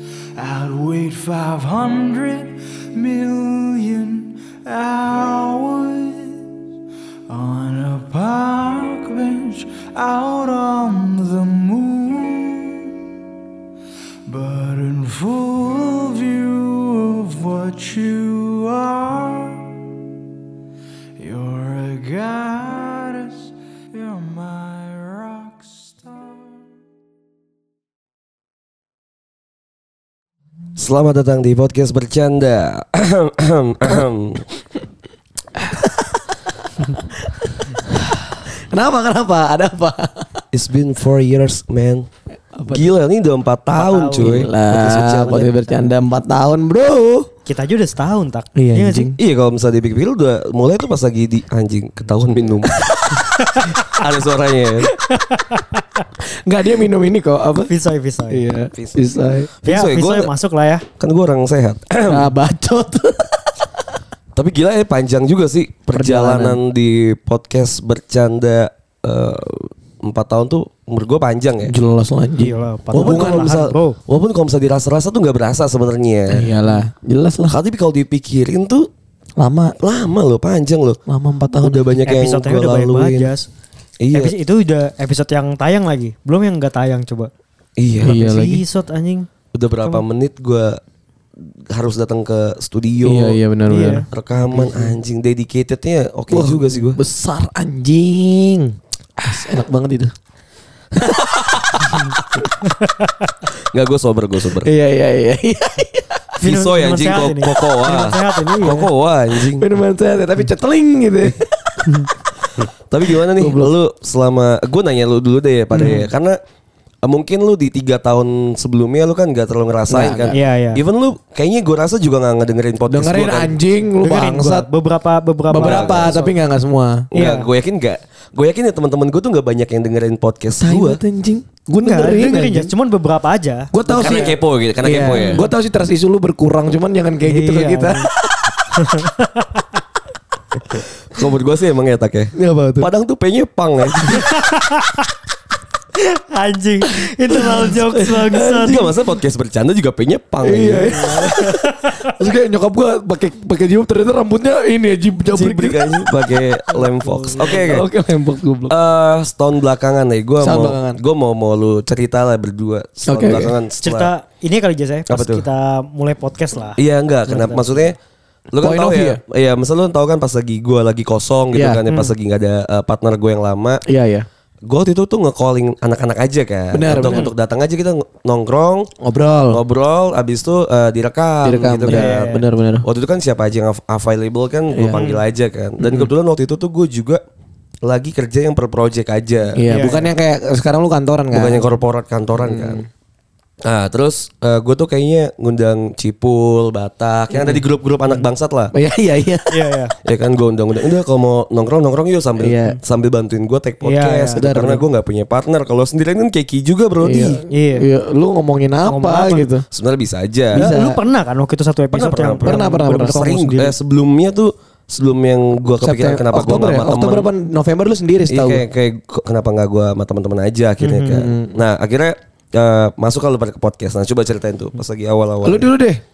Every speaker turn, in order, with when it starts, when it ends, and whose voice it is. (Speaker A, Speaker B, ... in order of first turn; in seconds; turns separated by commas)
Speaker A: 0.3-6.5, Speaker A: 7.3-12.9, Speaker A: 14.3-19.8, Speaker A: 21.2-26.6, Speaker B: 30.8-34.4, Speaker C: 35.5-36.3, Speaker C: 36.9-40.4, Speaker B: 40.5-42.1, Speaker C: 42.5-42.8, Speaker B: 42.7-45.5, Speaker D: 43.7-44.4, Speaker C: 44.1-47.3, Speaker D: 47.5-49.1, Speaker C: 48.5-49.1, Speaker B: 49.2-52.9, Speaker D: 53.2-53.9, Speaker B: 53.7-54.9, Speaker D: 55.0-56.0, Speaker C: 56.4-57.7, Speaker D: 57.7-58.4, Speaker C: 58.3-59.5, Speaker B: 58.7-60.3, Speaker D: 59.6-60.9, Speaker B: 61.0-62.3, Speaker C: 62.1-63.6, Speaker B: 64.3-71.7, Speaker C: 65.9-66.6, Speaker C: 71.7-73.6, Speaker D: 72.4-74.0, Speaker B: 72.9-76.5, Speaker C: 76.3-77.5, Speaker B: 77.5-78.9, Speaker C: 79.4-79.8, Speaker B: 79.8-81.0, Speaker C: 81.0-81.8, Speaker B: 81.6-83.3, Speaker D: 82.0-83.5, Speaker B: 84.0-84.3, Speaker D: 84.1-87.3, Speaker B: 87.8-88.2, Speaker C: 88.0-88.6, Speaker D: 88.0-89.3, Speaker B: 89.5-90.8, Speaker B: 91.7-93.4, Speaker C: 93.0-95.0, Speaker D: 93.7-94.0, Speaker B: 94.1-97.0, Speaker C: 96.3-100.1, Speaker C: 100.9-102.5, Speaker B: 103.6-104.7, Speaker C: 104.6-106.3, Speaker D: 106.4-108.9, Speaker B: 106.4-109.6, Speaker C: 109.4-112.1, Speaker B: 112.6-116.3, Speaker C: 113.3-113.7, Speaker C: 115.7-116.1, Speaker B: 117.0-123.5, Speaker C: 119.9-120.3, Speaker D: 120.3-120.8, Speaker C: 122.9-124.7, Speaker D: 124.0-126.3, Speaker C: 125.5-127.1, Speaker B: 125.5-126.2, Speaker B: 127.1-131.0, Speaker D: 127.1-127.5, Speaker C: 130.6-132.7, Speaker D: 131.8-134.3, Speaker C: 133.7-138.5, Speaker B: 133.9-135.5, Speaker D: 135.1-135.4, Speaker D: 137.2-138.1, Speaker D: 138.8-139.7, Speaker B: 141.1-144.3, Speaker C: 142.3-142.9, Speaker D: 144.1-145.0, Speaker D: 146.0-148.9, Speaker C: 147.3-148.8, Speaker B: 148.4-151.1, Speaker C: 150.4-156.0, Speaker D: 150.9-152.1, Speaker B: 155.3-157.9, Speaker D: 156.7-157.6, Speaker C: 157.4-158.7, Speaker B: 158.7-164.1, Speaker C: 160.4-161.0, Speaker C: 163.1-163.5, Speaker D: 163.8-167.8, Speaker B: 165.1-165.4, Speaker B: 166.8-167.9, Speaker B: 168.5-173.8, Speaker C: 168.6-169.2, Speaker C: 171.5-171.8, Speaker C: 173.8-174.2, Speaker B: 174.6-178.9, Speaker C: 176.7-177.3, Speaker D: 177.0-177.3, Speaker C: 179.0-179.6, Speaker B: 179.5-182.3, Speaker C: 181.4-182.8, Speaker D: 181.9-182.4, Speaker B: 182.8-187.2, Speaker C: 184.7-185.0, Speaker C: 185.8-186.1, Speaker B: 187.8-189.9, Speaker C: 189.5-191.6, Speaker D: 189.7-190.0, Speaker B: 191.3-192.8, Speaker C: 192.4-192.8, Speaker B: 193.6-198.7, Speaker C: 197.3-197.6, Speaker C: 198.7-199.7, Speaker D: 199.5-199.9, Speaker B: 200.0-207.4, Speaker C: 202.4-202.8, Speaker D: 203.8-204.4, Speaker C: 204.3-204.8, Speaker C: 207.0-209.6, Speaker D: 207.5-207.8, Speaker D: 208.9-209.5, Speaker B: 209.7-210.7, Speaker C: 210.5-211.0, Speaker D: 210.5-213.7, Speaker B: 211.9-217.3, Speaker C: 212.4-213.3, Speaker C: 215.8-218.6, Speaker B: 218.3-225.7, Speaker D: 220.8-221.3, Speaker C: 221.1-221.5, Speaker C: 225.4-226.0